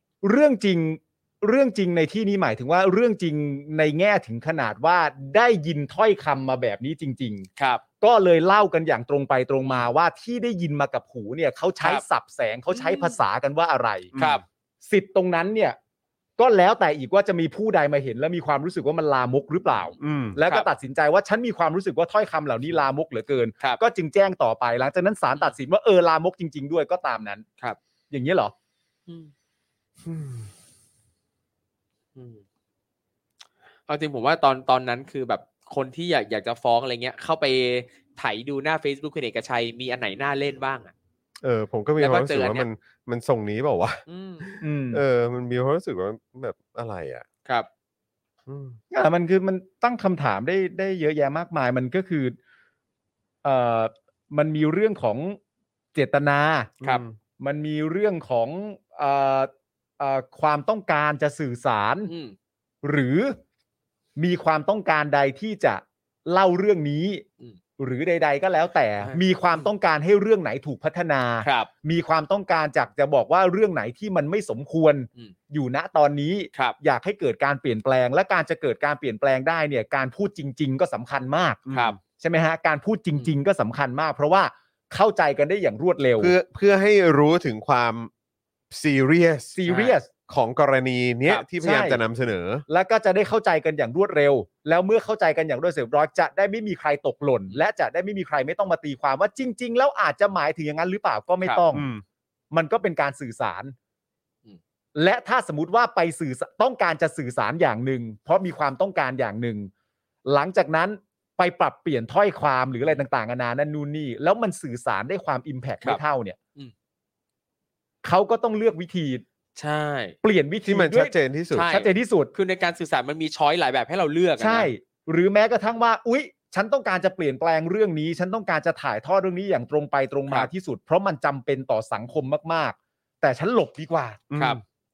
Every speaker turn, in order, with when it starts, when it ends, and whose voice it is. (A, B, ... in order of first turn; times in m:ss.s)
0:00.2-0:07.5 A
0:08.0-0:14.1 A
0:12.7-0:13.2 B
0:14.1-0:14.4 C
0:14.2-0:14.4 B
0:14.8-0:15.8 A
0:16.4-0:27.4 A
0:20.0-0:20.4 C
0:28.1-0:28.5 A
0:30.0-0:30.5 C
0:32.2-0:32.4 B
0:33.9-0:40.9 B
0:41.4-0:47.2 C
0:42.0-0:42.7 B
0:44.1-0:44.5 B
0:44.6-0:45.0 A
0:48.5-0:48.8 C
0:48.9-0:52.4 A
0:53.4-0:55.4 A
0:55.9-0:56.7 A
0:56.8-0:57.2 C
0:57.4-1:02.1 A
1:02.1-1:02.4 B
1:02.8-1:03.4 A
1:04.2-1:07.2 A
1:07.8-1:21.6 A
1:09.0-1:09.7 B
1:11.4-1:11.7 B
1:21.7-1:22.0 C
1:21.7-1:22.0 B
1:22.2-1:26.3 A
1:26.2-1:28.1 C
1:28.7-1:29.6 C
1:29.6-1:30.1 A
1:29.7-1:29.9 B
1:30.3-1:32.6 C
1:31.6-1:32.0 A
1:32.7-1:41.9 A
1:41.7-1:42.0 C
1:42.5-1:43.7 A
1:44.9-1:49.7 A
1:50.3-1:56.4 A
1:58.0-1:59.2 A
1:59.6-2:00.2 B
2:00.2-2:01.1 A
2:00.6-2:01.7 C
2:01.5-2:04.7 B
2:01.6-2:02.3 A
2:04.4-2:14.2 A
2:14.3-2:14.6 C